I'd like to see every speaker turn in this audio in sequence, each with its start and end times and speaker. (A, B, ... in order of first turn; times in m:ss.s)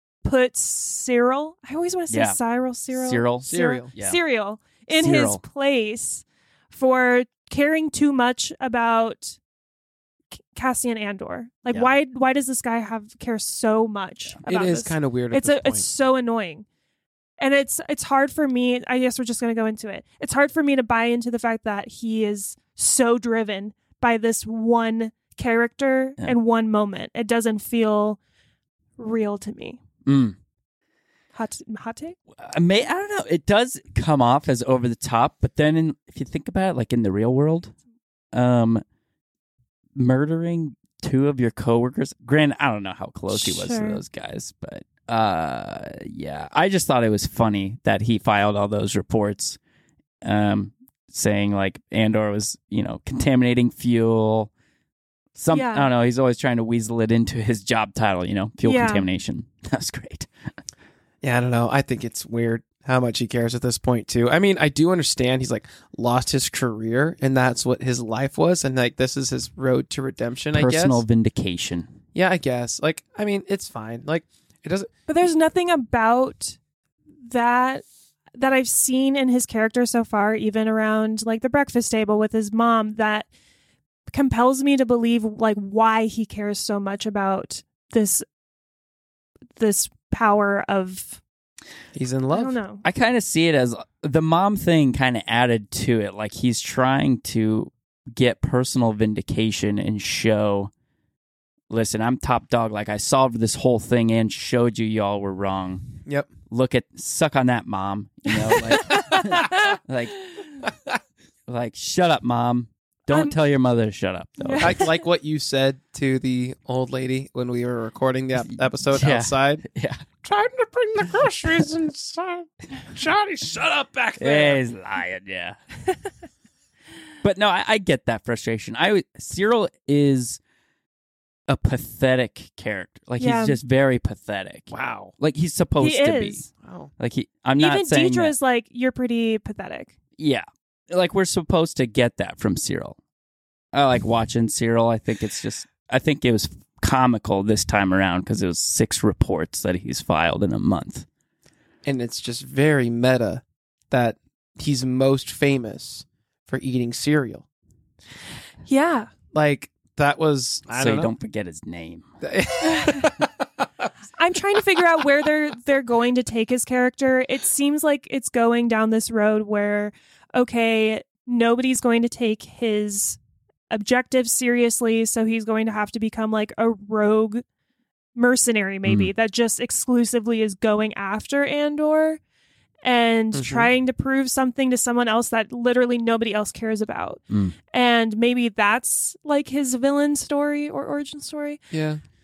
0:00.2-0:09.4 A
0:02.1-0:02.4 B
0:02.9-0:04.2 B
0:03.4-0:03.9 C
0:04.9-0:05.4 B
0:10.5-0:16.6 A
0:14.4-0:15.9 C
0:17.4-0:28.2 A
0:29.0-0:29.8 A
0:30.0-0:30.4 B
0:31.3-0:32.2 A
0:32.4-0:37.7 B
0:38.3-0:38.8 B
0:40.0-0:49.6 B
0:43.3-0:44.0 A
0:50.2-0:54.5 B
0:55.4-1:00.3 B
0:55.5-0:55.9 A
0:58.6-0:59.0 A
1:01.2-1:11.0 C
1:10.5-1:11.9 B
1:12.1-1:14.9 C
1:15.1-1:16.6 A
1:17.2-1:23.3 A
1:24.1-1:28.2 A
1:29.6-1:31.2 A
1:31.9-1:32.6 C
1:32.3-1:32.8 A
1:32.8-1:40.7 B
1:41.7-1:45.9 B
1:46.5-1:50.2 B
1:48.7-1:49.2 C
1:49.1-1:49.7 A
1:50.7-1:51.0 C
1:51.5-1:54.9 B
1:54.4-1:54.9 A
1:54.6-1:59.6 C
1:58.5-2:00.0 B
2:00.2-2:04.6 C
2:04.2-2:05.6 B
2:07.2-2:10.4 B
2:11.5-2:16.4 B
2:13.2-2:13.6 A
2:14.7-2:15.1 C
2:15.8-2:16.5 A
2:16.6-2:16.9 C
2:17.0-2:18.3 B
2:17.6-2:19.9 A
2:20.2-2:23.0 B
2:23.7-2:31.0 B
2:31.8-2:37.4 C
2:38.6-2:39.1 A
2:39.3-2:41.1 C
2:40.7-2:42.1 B
2:42.2-2:43.9 C
2:42.6-2:43.1 A
2:44.2-2:53.2 A
2:53.7-2:57.4 A
2:58.2-3:02.2 A
2:58.8-2:59.1 B
3:02.8-3:07.2 A
3:03.3-3:03.7 C
3:07.7-3:11.6 A
3:11.7-3:12.0 C